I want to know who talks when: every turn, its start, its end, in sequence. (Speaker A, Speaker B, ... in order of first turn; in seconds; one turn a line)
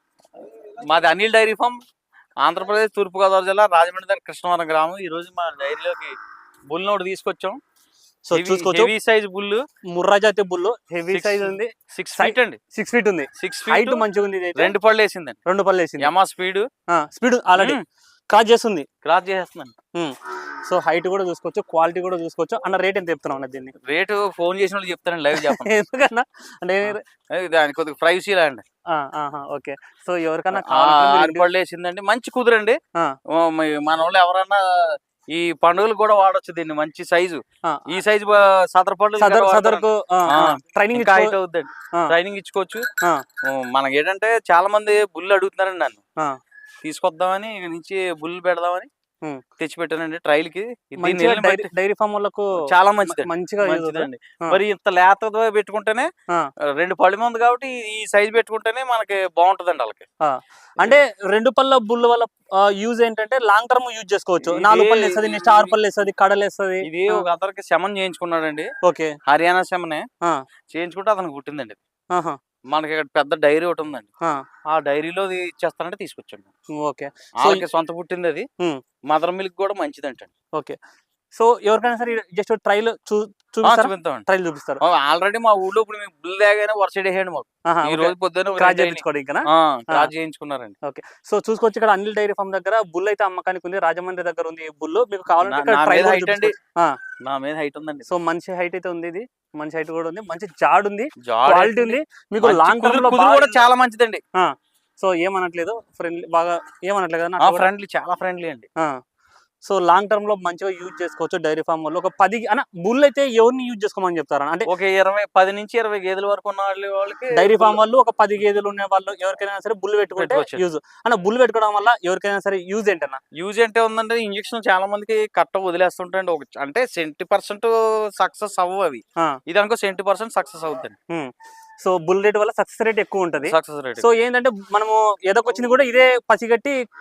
Speaker A: 0.8-1.8
Speaker A: 2.4-6.2
Speaker A: 6.7-7.6
Speaker B: 8.3-8.9
Speaker A: 8.3-9.6
Speaker B: 9.9-14.7
Speaker A: 11.1-12.6
Speaker A: 13.4-14.0
Speaker A: 14.6-15.4
Speaker B: 15.5-16.1
Speaker A: 16.0-16.7
Speaker B: 16.9-17.8
Speaker A: 17.6-17.8
Speaker B: 18.3-18.9
Speaker A: 19.0-19.7
Speaker B: 19.9-23.7
Speaker A: 23.8-25.7
Speaker B: 25.4-27.0
Speaker A: 26.9-28.6
Speaker B: 28.9-31.5
Speaker A: 30.5-32.8
Speaker A: 33.3-42.9
Speaker B: 39.2-41.3
Speaker A: 43.4-46.0
Speaker A: 46.8-48.9
Speaker A: 49.6-51.7
Speaker B: 51.0-54.6
Speaker A: 52.6-56.1
Speaker A: 56.8-60.0
Speaker B: 60.2-67.2
Speaker A: 64.4-65.8
Speaker A: 66.8-68.7
Speaker B: 68.8-69.2
Speaker A: 69.3-70.1
Speaker A: 70.7-71.8
Speaker A: 72.7-74.1
Speaker A: 74.7-76.5
Speaker B: 76.8-77.7
Speaker A: 77.4-78.5
Speaker A: 79.1-80.3
Speaker B: 81.4-84.8
Speaker A: 83.6-84.2
Speaker A: 84.8-90.8
Speaker B: 87.7-90.1
Speaker B: 90.8-97.0
Speaker A: 95.4-96.5
Speaker A: 97.2-98.1
Speaker B: 98.1-103.7
Speaker A: 101.2-104.2
Speaker B: 104.4-107.7
Speaker A: 107.4-108.7
Speaker B: 109.7-114.7
Speaker A: 114.7-117.8
Speaker B: 117.3-123.2
Speaker A: 120.2-120.6
Speaker A: 123.4-131.0
Speaker B: 131.8-136.7
Speaker A: 133.4-134.1